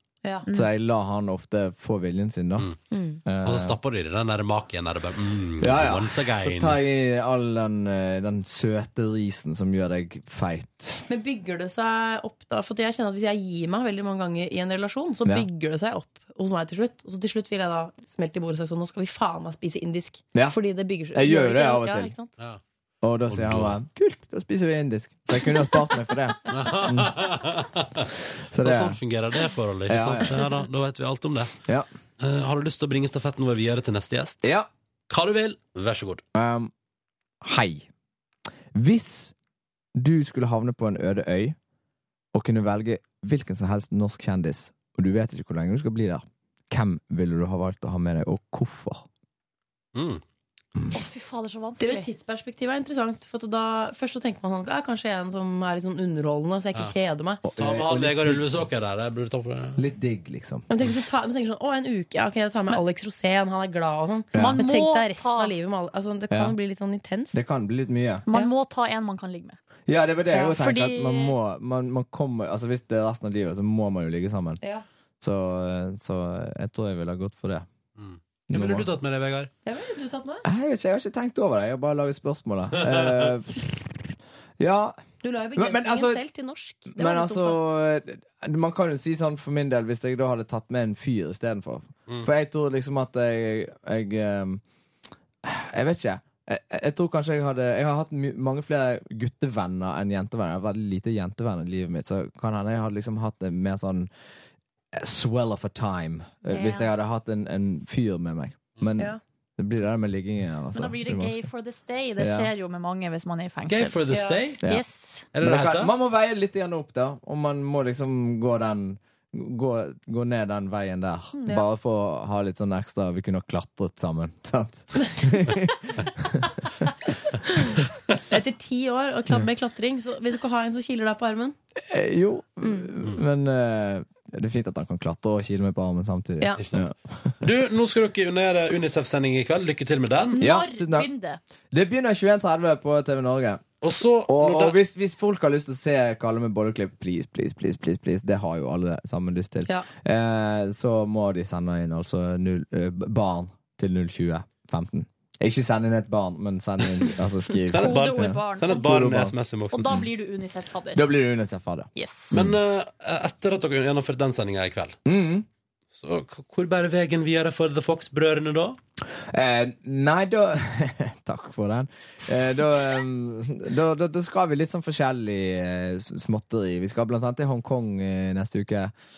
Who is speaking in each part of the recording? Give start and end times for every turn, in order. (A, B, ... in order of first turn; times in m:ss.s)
0:00.5-0:02.7 A
0:02.9-0:03.2 B
0:03.2-0:03.8 A
0:03.4-0:06.8 C
0:05.6-0:11.0 A
0:11.1-0:22.3 B
0:21.1-0:22.1 A
0:23.0-0:27.2 A
0:23.3-0:23.8 C
0:26.5-0:27.9 C
0:28.5-0:29.0 A
0:28.6-0:31.5 C
0:29.9-0:30.4 A
0:32.2-0:34.5 C
0:34.4-0:34.7 A
0:35.1-0:36.2 C
0:36.3-0:36.7 A
0:37.4-0:37.9 A
0:38.7-0:39.3 A
0:40.0-0:41.6 A
0:42.3-0:49.1 A
0:50.0-0:50.2 C
0:50.9-0:52.1 D
0:51.8-0:57.4 B
0:57.4-0:58.6 A
0:57.6-0:59.8 C
0:59.8-1:00.7 A
1:00.7-1:07.4 B
1:04.3-1:04.6 A
1:04.4-1:05.5 D
1:06.3-1:06.6 A
1:07.3-1:08.3 A
1:08.3-1:09.6 D
1:09.9-1:14.6 A
1:10.5-1:11.4 D
1:15.2-1:17.7 A
1:18.0-1:19.5 C
1:18.5-1:18.9 A
1:19.7-1:20.5 B
1:20.4-1:24.0 A
1:24.6-1:25.0 A
1:25.2-1:27.6 B
1:25.6-1:26.2 A
1:26.9-1:34.6 A
1:35.4-1:44.1 A
1:45.0-1:51.4 A
1:46.5-1:46.9 D
1:50.7-1:54.0 D
1:52.2-1:52.5 A
1:53.7-1:54.6 C
1:54.1-1:54.5 B
1:54.6-1:55.3 D
1:55.3-1:55.9 C
1:55.4-2:06.9 A
2:08.3-2:11.6 B
2:11.8-2:17.4 A
2:17.4-2:20.4 C
2:20.3-2:21.4 D
2:20.4-2:21.1 A
2:21.7-2:23.6 A
2:23.8-2:24.8 C
2:24.3-2:39.4 A
2:37.7-2:40.0 C
2:37.7-2:38.9 D
2:39.7-2:41.1 D
2:41.0-2:42.5 A
2:42.0-2:42.4 D
2:42.3-2:45.0 C
2:45.1-2:45.5 A
2:46.0-2:48.8 C
2:49.3-2:58.9 A